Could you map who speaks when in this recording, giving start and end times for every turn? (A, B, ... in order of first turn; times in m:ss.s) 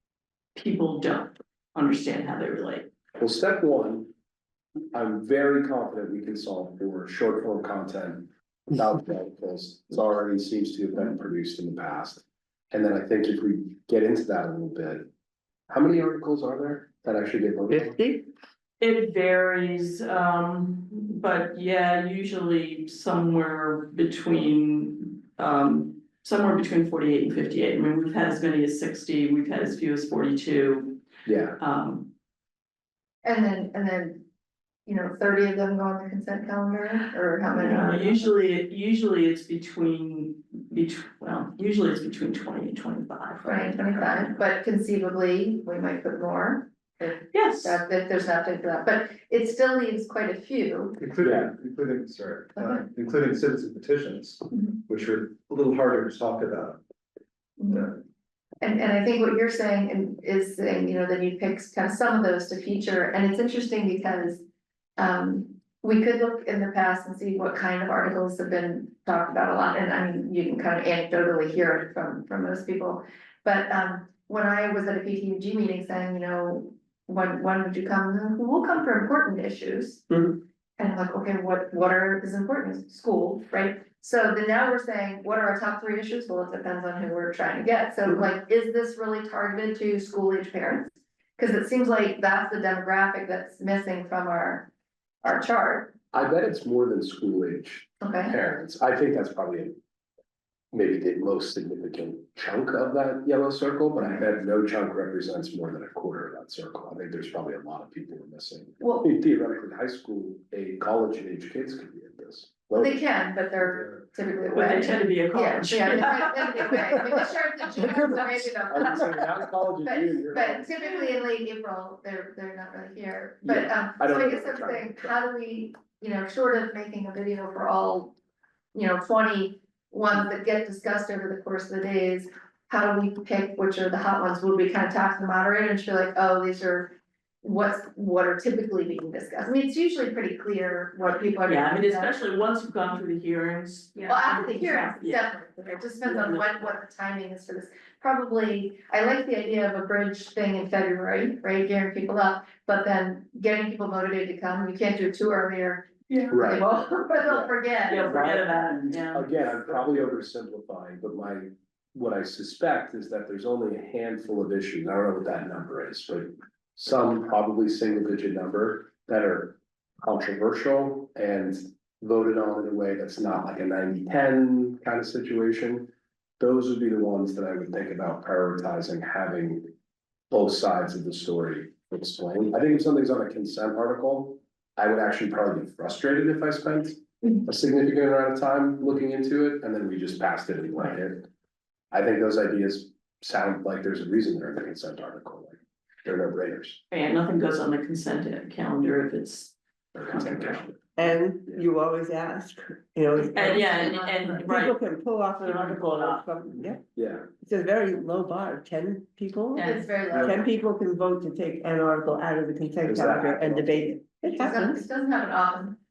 0:00.6-0:02.9 A
0:03.2-0:04.1 B
0:04.9-0:15.1 B
0:15.7-0:18.0 B
0:17.7-0:18.3 C
0:18.8-0:31.0 A
0:31.3-0:31.6 B
0:31.6-0:32.1 A
0:33.2-0:34.2 D
0:34.9-0:38.3 D
0:37.5-0:44.4 A
0:43.4-0:51.0 D
0:47.3-0:47.8 A
0:51.0-0:56.8 E
0:51.2-0:51.5 B
0:52.6-0:52.8 D
0:57.6-0:57.9 D
0:57.7-0:57.9 E
0:58.6-1:04.4 D
1:05.0-1:20.0 D
1:20.1-1:20.4 C
1:20.8-1:34.7 D
1:35.2-1:35.9 D
1:36.1-1:39.8 B
1:38.0-1:38.4 D
1:40.7-1:53.0 B
1:52.8-1:59.2 D
1:54.5-1:57.0 A
1:58.7-2:00.9 B
1:59.8-2:08.2 D
2:03.4-2:05.1 B
2:08.7-2:22.1 D
2:21.5-2:25.2 A
2:24.1-2:38.5 D
2:26.0-2:26.5 A
2:36.1-2:36.9 A
2:36.3-2:36.6 B
2:37.3-2:59.7 B
2:37.9-2:39.5 A
3:00.3-3:11.3 B
3:11.9-3:16.8 B
3:16.9-3:20.7 A
3:20.0-3:21.6 B
3:21.0-3:26.8 C
3:23.2-3:24.8 A
3:23.8-3:24.1 D
3:25.4-3:26.3 A
3:27.0-3:27.3 B
3:27.3-3:34.8 C
3:29.6-3:29.9 A
3:29.6-3:30.4 D
3:30.1-3:30.4 B
3:32.8-3:33.9 B
3:34.4-3:35.8 D